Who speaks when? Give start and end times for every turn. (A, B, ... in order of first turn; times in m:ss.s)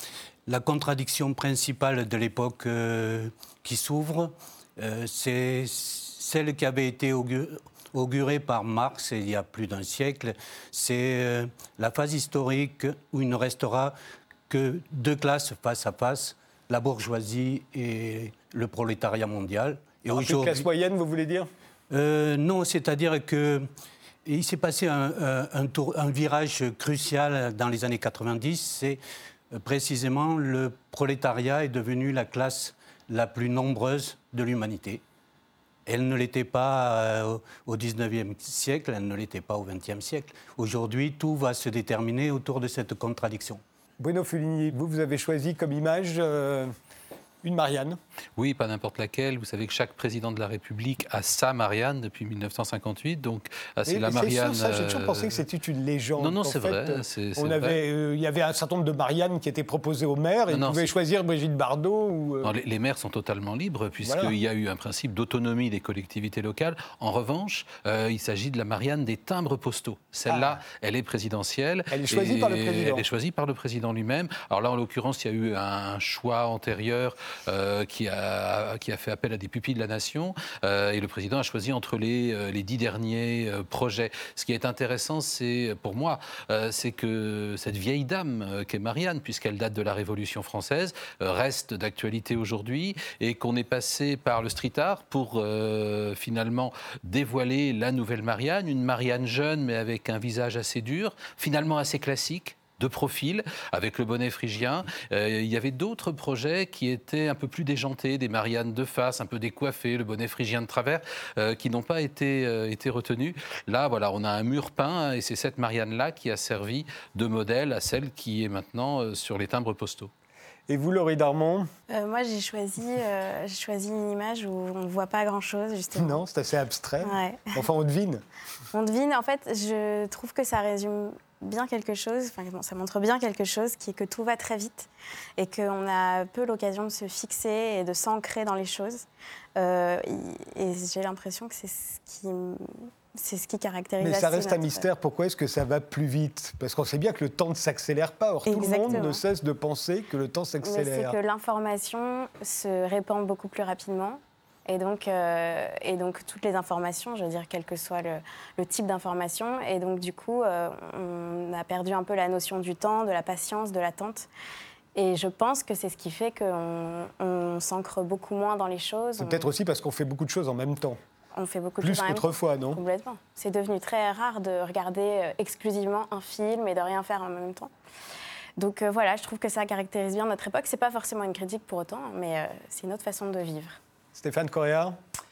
0:00.4-0:13.9 A
0:14.5-0:20.6 A
0:20.1-0:21.5 B
0:21.9-0:23.7 A
0:24.2-0:29.0 A
0:29.5-0:35.0 A
0:35.8-0:43.6 A
0:44.0-0:46.7 B
0:47.4-0:48.0 B
0:48.4-0:55.4 C
0:53.9-1:02.5 B
0:56.2-0:57.8 C
1:00.5-1:00.9 C
1:02.4-2:00.1 C
1:04.0-1:04.3 B
1:10.3-1:10.6 B
1:11.9-1:13.0 B
2:00.7-2:01.7 B
2:01.9-2:06.2 D
2:06.0-2:08.2 B
2:07.0-2:07.5 D
2:08.7-2:24.8 D
2:24.0-2:31.2 B
2:28.4-2:29.2 D
2:30.6-2:44.3 D
2:44.9-2:49.5 D
2:49.2-2:51.0 B
2:51.3-2:57.7 D
2:51.8-2:52.8 B
2:58.6-3:03.8 D
3:04.1-3:05.0 B